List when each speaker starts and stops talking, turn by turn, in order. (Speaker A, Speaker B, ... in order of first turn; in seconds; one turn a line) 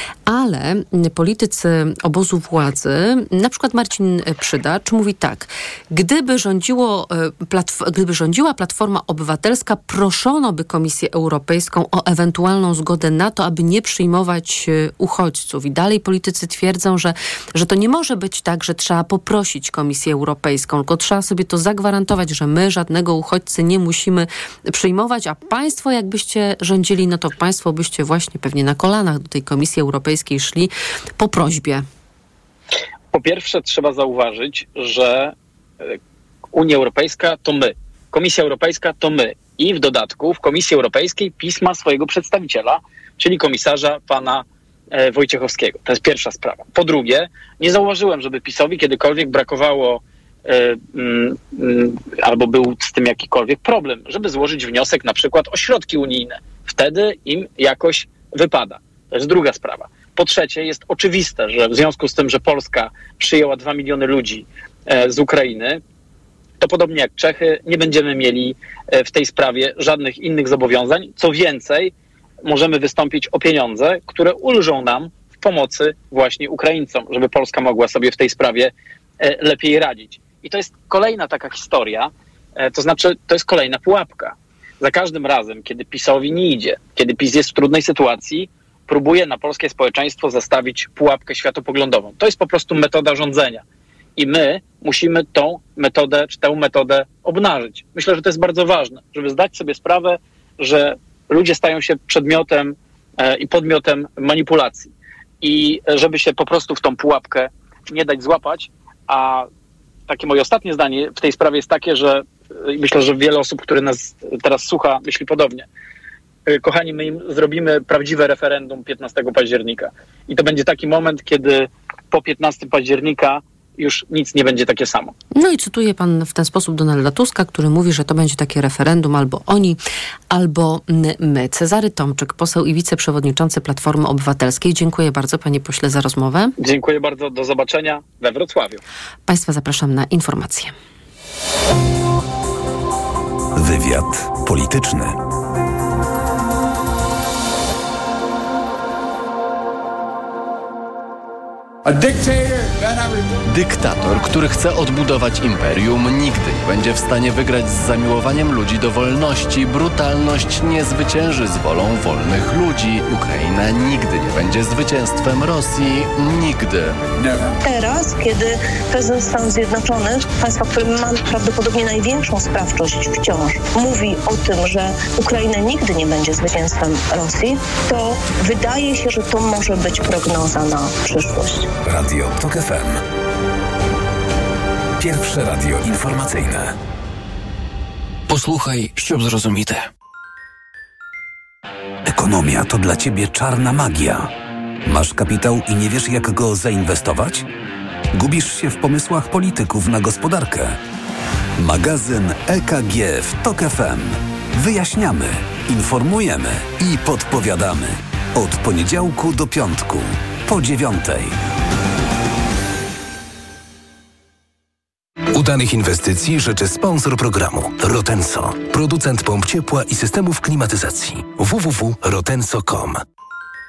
Speaker A: 0.3-31.8
Speaker B: 33.1-36.0
Speaker B: 36.5-65.8
Speaker B: 66.6-71.9
Speaker B: 72.4-93.6
Speaker B: 94.2-104.9
Speaker B: 105.4-109.5
Speaker B: 110.1-115.7
Speaker B: 116.5-125.1
Speaker A: 125.3-129.8
Speaker A: 130.3-136.5
Speaker B: 136.6-138.8
Speaker A: 139.3-140.7
Speaker C: 143.6-145.2
Speaker D: 153.4-167.0
Speaker E: 167.6-181.7
Speaker C: 181.8-183.0
Speaker C: 185.0-186.7
Speaker F: 188.3-189.8
Speaker C: 192.1-194.3
Speaker C: 194.8-197.4
Speaker C: 198.1-200.8
Speaker C: 201.6-211.3
Speaker F: 215.3-223.0